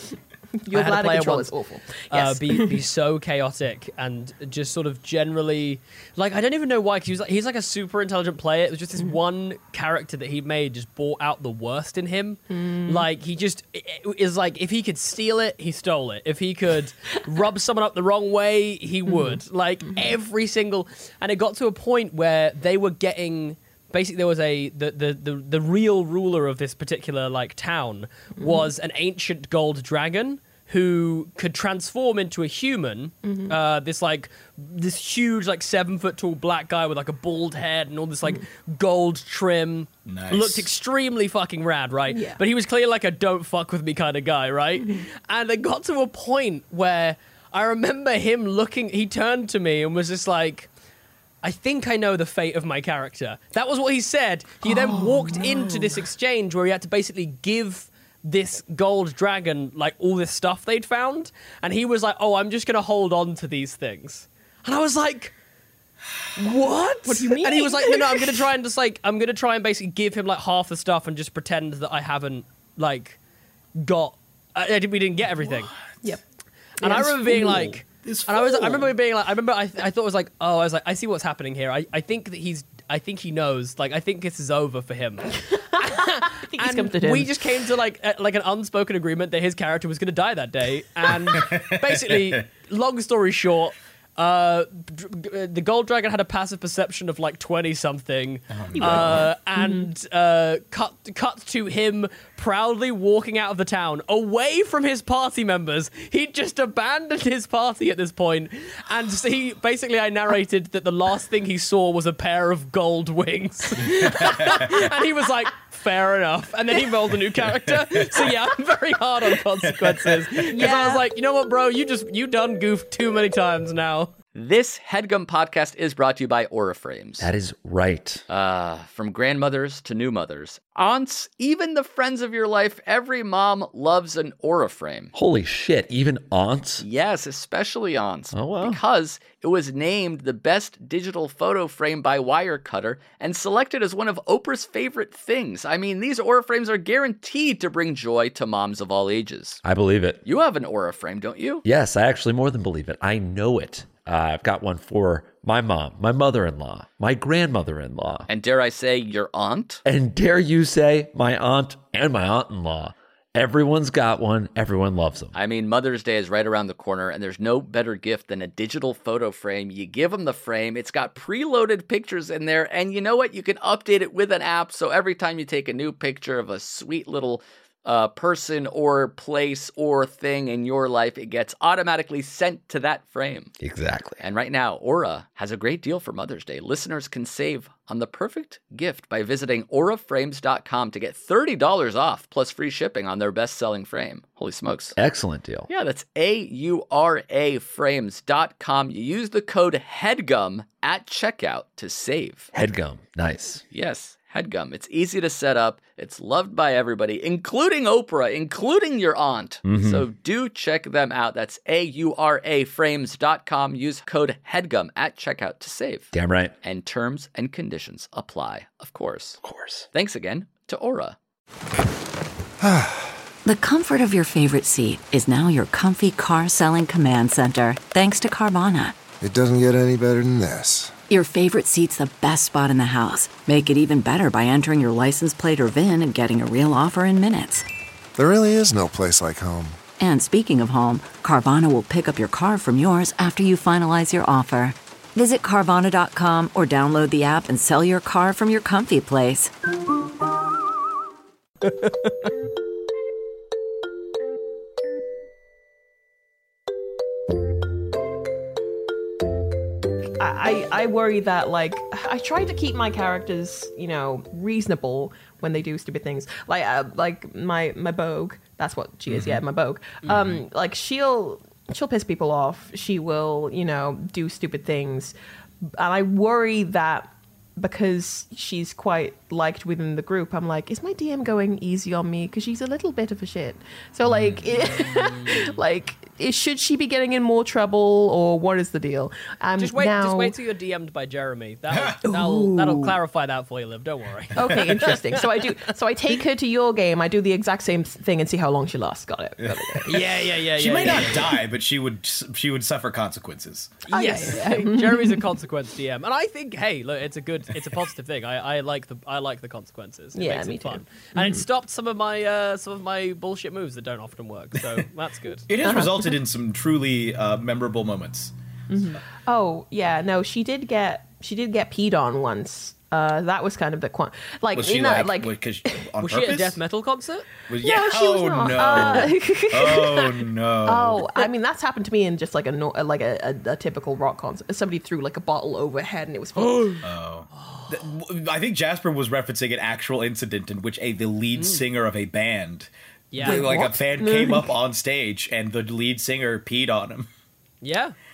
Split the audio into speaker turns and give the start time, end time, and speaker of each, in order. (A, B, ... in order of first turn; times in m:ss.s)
0:00.6-0:02.8 A
0:00.7-0:01.5 B
0:02.1-0:50.7 B
0:12.5-0:13.1 A
0:19.1-0:19.4 A
0:28.4-0:28.7 A
0:33.2-0:33.6 A
0:40.0-0:40.7 C
0:42.1-0:42.4 A
0:51.4-1:05.3 B
0:54.6-0:55.8 A
1:06.4-1:13.2 B
1:07.0-1:08.4 A
1:13.8-1:15.7 B
1:15.4-1:15.9 C
1:16.8-2:04.1 B
1:16.8-1:17.7 A
1:17.9-1:18.9 C
1:25.4-1:27.3 A
1:31.3-1:32.4 C
1:38.5-1:39.3 C
1:38.7-1:39.9 A
1:54.0-1:54.7 C
1:57.5-1:58.3 C
1:59.7-2:00.2 C
2:00.5-2:01.0 A
2:04.3-2:07.3 D
2:07.2-2:08.2 E
2:08.3-2:15.1 D
2:15.1-2:16.8 E
2:16.8-2:29.6 D
2:18.3-2:18.8 E
2:29.6-2:30.2 E
2:30.2-2:31.6 D
2:31.6-2:38.3 E
2:38.3-2:39.8 D
2:39.8-2:45.3 E
2:45.3-3:03.5 D
3:03.6-3:04.2 E
3:04.2-3:15.0 D
3:15.0-3:15.7 E
3:15.7-3:22.5 D
3:22.5-3:23.6 E
3:23.7-3:36.1 D
3:29.6-3:30.0 E
3:36.1-3:36.5 E
3:36.6-3:41.2 D
3:39.4-3:39.8 E
3:42.6-3:43.0 F
3:43.4-3:49.0 G
3:49.2-3:50.9 F
3:51.1-3:57.6 G
3:58.2-3:59.8 F
4:00.0-4:09.5 G
4:11.8-4:12.1 B
4:20.2-4:50.3 A
4:29.1-4:29.4 C
4:30.0-4:30.4 B
4:44.0-4:44.4 C
4:44.7-4:45.5 B
4:49.6-4:55.4 B
4:51.7-4:52.0 C
4:52.0-4:53.0 A
4:54.3-5:00.0 A
4:59.4-5:03.8 C
4:59.8-5:01.3 B
5:03.9-5:15.5 B
5:03.9-5:05.2 A
5:10.1-5:11.4 A
5:15.5-5:18.3 C
5:15.6-5:16.2 A
5:18.7-5:26.5 A
5:24.5-5:26.5 C
5:26.0-5:27.2 B
5:27.5-5:31.1 C
5:27.6-5:36.8 A
5:28.7-5:29.1 B
5:36.4-5:36.8 B
5:36.8-5:47.1 C
5:37.4-5:37.8 B
5:41.4-5:41.6 B
5:43.1-5:43.4 B
5:43.2-5:44.5 A
5:47.6-5:47.9 B